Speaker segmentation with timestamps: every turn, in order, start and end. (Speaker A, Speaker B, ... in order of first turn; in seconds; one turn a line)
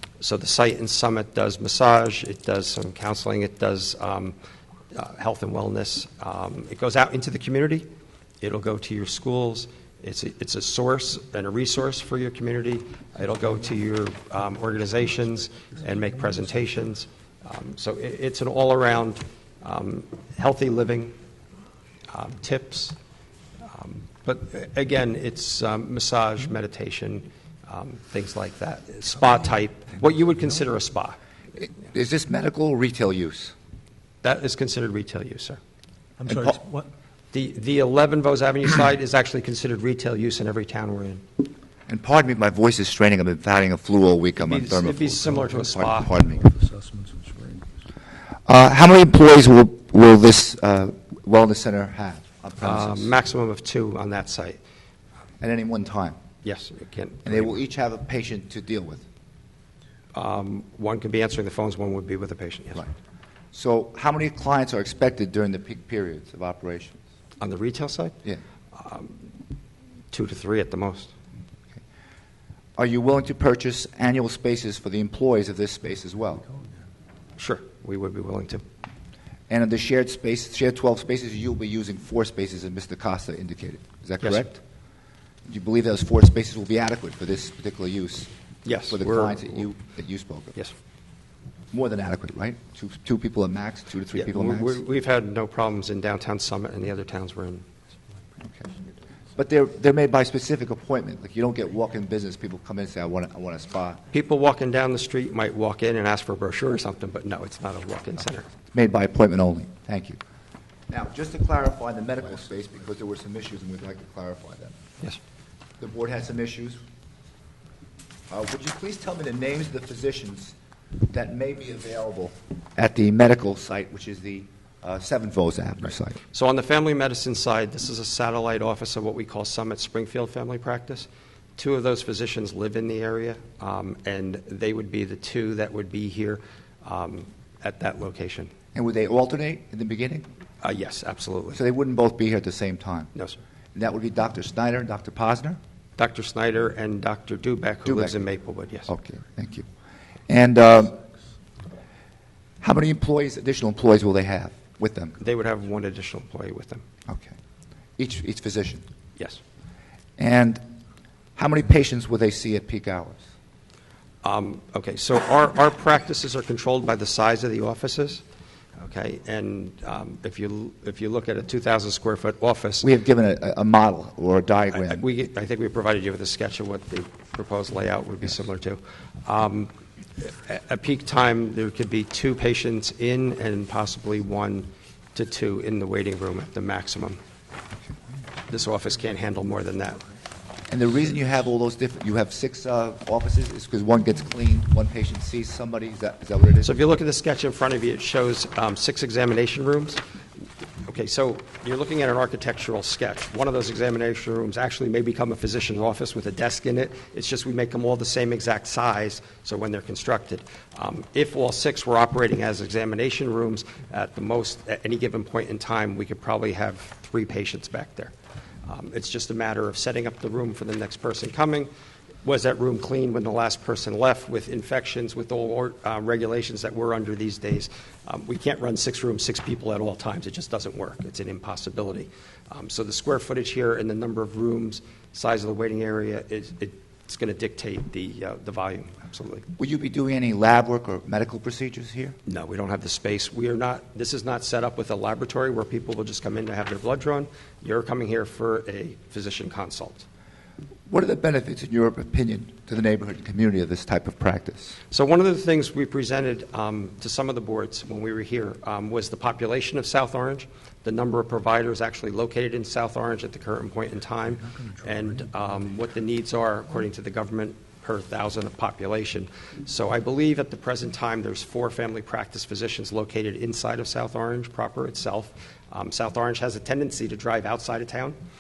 Speaker A: 0.2-4.3
Speaker A: 4.9-7.9
Speaker A: 8.4-21.1
Speaker A: 22.1-23.0
Speaker A: 23.6-31.2
Speaker B: 31.6-33.5
Speaker A: 34.2-35.6
Speaker C: 36.2-36.9
Speaker B: 36.2-36.6
Speaker A: 37.3-41.2
Speaker B: 41.9-46.4
Speaker A: 44.4-46.2
Speaker C: 46.4-47.7
Speaker B: 48.5-53.1
Speaker A: 52.6-54.6
Speaker B: 55.4-56.2
Speaker A: 56.4-57.6
Speaker B: 57.2-59.0
Speaker A: 60.1-62.8
Speaker B: 63.5-67.0
Speaker A: 67.4-68.1
Speaker A: 68.7-69.2
Speaker A: 70.1-71.1
Speaker B: 72.8-76.5
Speaker A: 77.4-78.6
Speaker B: 79.5-84.6
Speaker A: 84.2-84.5
Speaker B: 85.5-88.3
Speaker A: 88.6-89.6
Speaker B: 88.9-90.6
Speaker B: 91.7-94.8
Speaker A: 94.1-97.6
Speaker B: 99.3-104.0
Speaker A: 104.1-108.5
Speaker B: 108.7-110.2
Speaker B: 110.9-114.8
Speaker B: 115.8-116.8
Speaker B: 118.3-120.5
Speaker B: 121.1-126.2
Speaker A: 126.3-138.5
Speaker B: 138.7-140.2
Speaker A: 140.6-141.6
Speaker B: 141.5-143.1
Speaker A: 143.1-143.4
Speaker B: 143.7-145.6
Speaker A: 146.0-148.9
Speaker B: 147.8-148.2
Speaker B: 148.9-149.7
Speaker B: 150.3-151.0
Speaker B: 152.6-155.2
Speaker A: 155.2-156.8
Speaker B: 157.1-157.3
Speaker B: 158.0-158.8
Speaker B: 160.2-160.6
Speaker B: 161.3-163.2
Speaker A: 164.2-168.2
Speaker A: 168.8-172.8
Speaker B: 172.8-175.1
Speaker A: 174.7-187.2
Speaker A: 188.5-190.0
Speaker B: 190.7-196.8
Speaker A: 196.6-200.0
Speaker A: 200.8-218.1
Speaker A: 218.6-221.7
Speaker A: 222.2-239.5
Speaker B: 239.6-242.2
Speaker A: 242.2-250.0
Speaker B: 250.9-254.8
Speaker A: 254.9-278.2